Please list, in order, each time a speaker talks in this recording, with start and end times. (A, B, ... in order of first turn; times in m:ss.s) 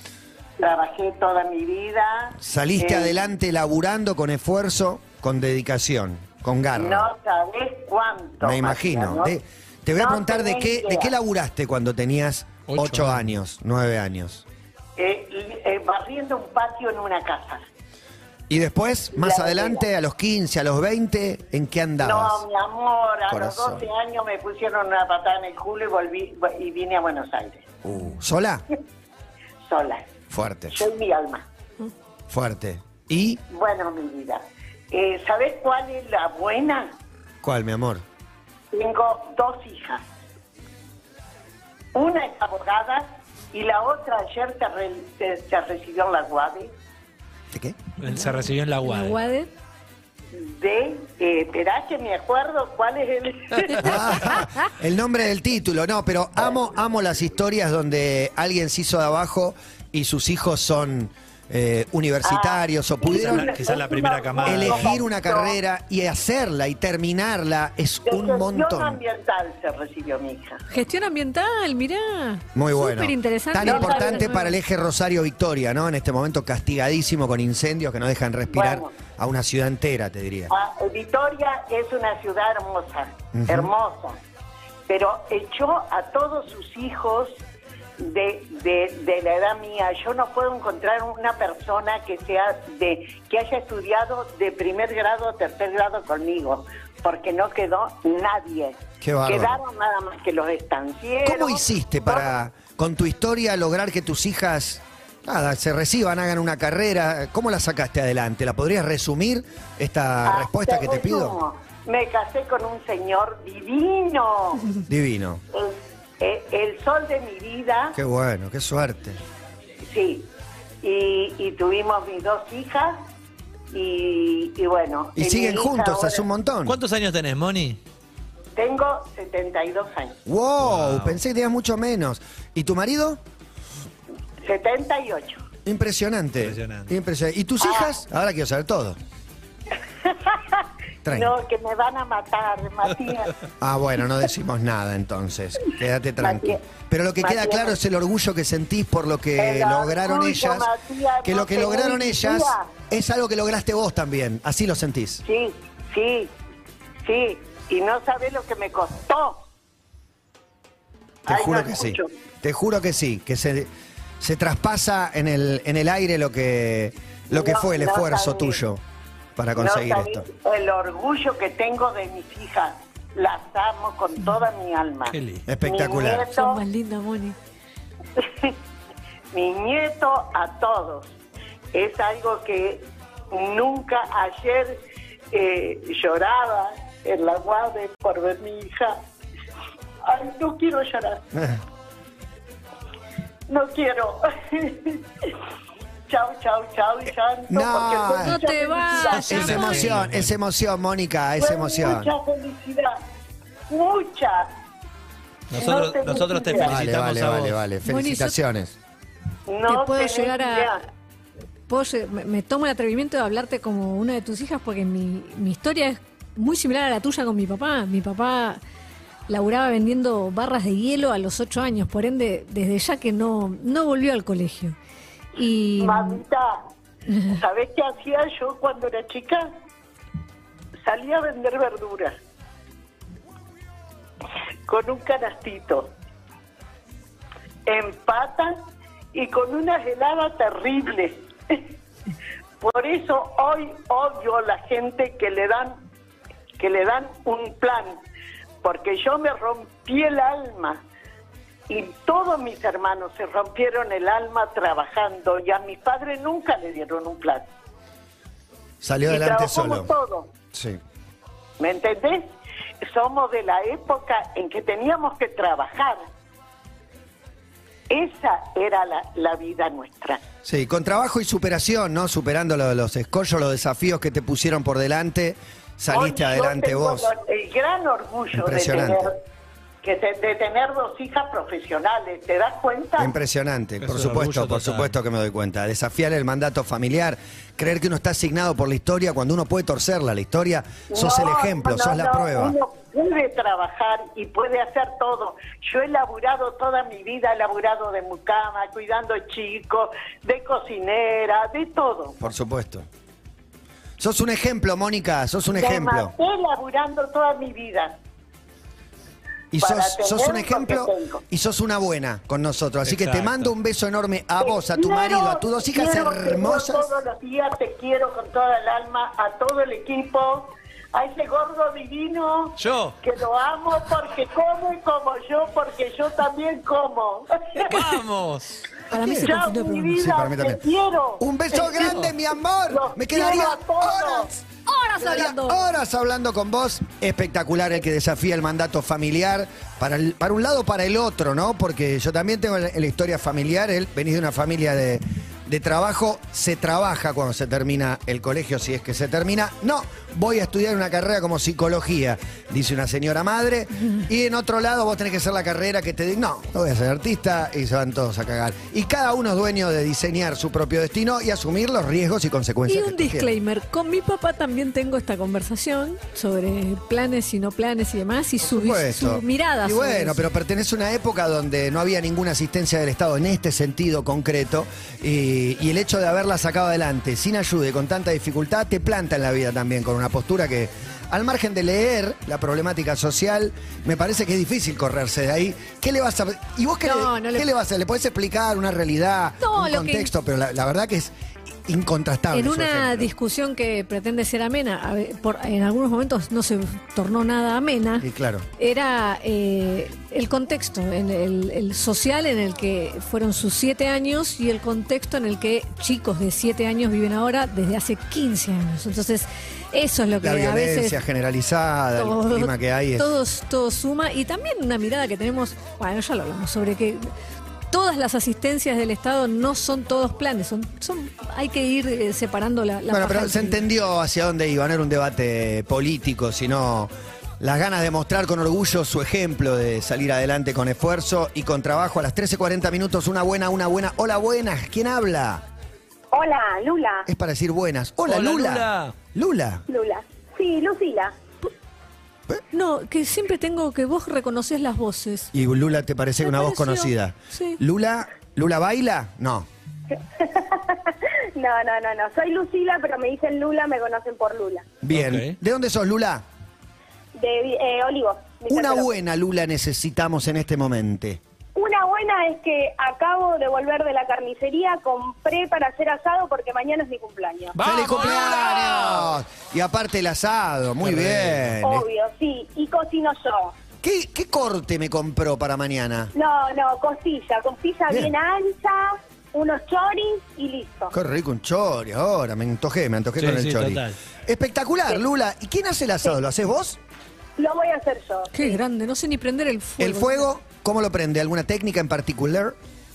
0:00.6-0:03.2 A
0:02.4-0:07.1 B
0:06.8-0:09.3 A
0:08.4-0:14.4 B
0:10.0-0:11.1 A
0:12.7-0:13.3 C
0:15.0-0:17.6 A
0:18.5-0:22.4 B
0:19.1-0:19.8 A
0:22.0-0:27.6 A
0:23.3-0:23.9 B
0:27.8-0:28.6 B
0:29.6-0:30.1 A
0:30.3-0:30.8 B
0:30.7-0:31.5 A
0:32.3-0:33.4 B
0:33.5-0:37.0 A
0:37.4-0:38.0 B
0:38.7-0:40.0 A
0:41.9-0:46.7 A
0:47.5-0:47.8 B
0:48.0-0:49.2 C
0:48.1-0:49.5 D
0:50.3-0:54.4 A
0:53.8-1:03.8 B
1:02.2-1:05.6 A
1:03.1-1:05.0 C
1:04.4-1:09.0 B
1:08.1-1:10.6 A
1:10.7-1:14.6 D
1:12.6-1:20.5 B
1:13.6-1:14.3 A
1:18.5-1:18.9 A
1:20.5-1:24.2 A
1:23.3-1:23.7 B
1:24.9-1:27.4 A
1:28.0-1:42.3 A
1:39.0-1:39.6 B
1:41.2-1:51.4 B
1:50.3-1:54.7 A
1:54.9-1:55.4 B
1:55.5-1:58.0 A
1:57.9-1:59.2 B
1:59.9-2:00.3 A
2:00.8-2:03.0 A
2:03.7-2:06.2 A
2:05.2-2:06.8 B
2:06.6-2:07.8 C
2:08.6-2:10.2 A
2:10.3-2:13.2 B
2:10.6-2:11.2 C
2:14.4-2:15.4 A
2:15.6-2:19.0 B
2:16.4-2:17.0 C
2:17.6-2:17.9 A
2:20.0-2:23.4 A
2:21.0-2:21.3 B
2:23.6-2:30.7 B
2:26.2-2:26.6 A
2:27.2-2:27.8 A
2:29.4-2:32.7 A
2:31.2-2:35.2 B
2:35.2-2:36.3 A
2:37.0-2:39.4 A
2:41.3-2:42.1 A
2:41.3-2:48.8 B
2:47.3-2:48.6 A
2:49.4-2:50.3 B
2:49.6-2:56.6 A
2:55.1-2:55.4 C
2:55.5-2:56.3 B
2:56.3-2:57.4 D
2:58.2-2:58.6 A
2:59.3-3:01.1 A
3:01.7-3:04.8 A
3:05.3-3:09.0 A
3:10.0-3:11.2 A
3:11.3-3:11.6 B
3:13.5-3:15.4 A
3:16.1-3:19.6 A
3:17.5-3:18.4 B
3:18.1-3:19.9 D
3:19.1-3:20.4 C
3:19.2-3:22.1 B
3:21.4-3:23.0 A
3:23.7-3:24.5 A
3:25.5-3:27.6 C
3:25.6-3:26.8 A
3:26.6-3:28.8 B
3:27.8-3:28.4 D
3:29.5-3:30.8 A
3:29.7-3:30.8 D
3:31.7-3:38.6 D
3:39.3-3:44.8 D
3:45.4-3:46.2 D
3:45.8-3:46.6 A
3:47.1-3:47.4 D
3:47.3-3:49.5 A
3:50.8-3:52.2 A
3:54.7-3:55.9 A
3:57.6-3:58.6 A
3:59.1-4:01.7 A
4:02.6-4:05.8 A
4:06.6-4:08.0 A
4:08.6-4:10.8 A
4:11.7-4:17.5 A
4:18.8-4:19.9 B
4:19.1-4:20.3 A
4:20.5-4:20.8 B
4:21.6-4:22.3 A
4:22.8-4:26.0 A
4:27.9-4:30.2 A
4:30.4-4:37.1 B
4:35.9-4:39.2 A
4:38.3-4:39.1 B
4:39.8-4:43.1 A
4:43.0-4:52.6 B
4:43.8-4:44.9 C
4:50.9-5:02.2 A
5:02.2-5:02.9 B
5:04.0-5:06.1 B
5:05.5-5:08.0 A
5:09.5-5:16.9 B
5:09.6-5:11.2 A
5:12.8-5:13.5 C
5:14.4-5:27.8 A
5:22.6-5:23.0 C
5:27.6-5:28.7 C
5:28.9-5:29.9 D
5:28.9-5:29.4 B
5:29.0-5:32.0 A
5:29.9-5:30.6 B
5:31.2-5:34.4 B
5:32.7-5:34.3 A
5:34.6-5:35.6 D
5:35.0-6:03.3 B
6:02.7-6:10.2 D
6:08.4-6:31.1 B
6:26.8-6:27.5 D
6:29.4-6:30.1 D
6:31.6-6:33.1 B
6:32.3-6:51.0 D
6:38.0-6:38.4 B
6:50.2-6:53.1 B
6:52.0-6:57.1 D
6:57.7-7:03.6 D
7:02.9-7:15.4 B
7:16.1-7:17.1 E
7:17.1-7:19.6 B
7:18.1-7:18.9 C
7:19.7-7:21.1 E
7:22.5-7:25.3 D
7:25.3-7:29.5 B
7:26.2-7:27.6 D
7:30.2-7:34.7 E
7:34.8-7:36.2 B
7:34.9-7:35.4 C
7:37.1-7:39.0 E
7:38.5-7:41.2 B
7:41.6-7:47.6 E
7:47.6-7:49.1 C
7:47.6-7:51.9 B
7:50.8-7:51.5 C
7:51.6-7:53.5 E
7:53.8-7:56.1 B
7:56.1-8:00.9 E
8:00.9-8:06.8 B
8:03.2-8:04.0 C
8:07.4-8:08.6 E
8:08.3-8:10.3 D
8:09.8-8:12.6 B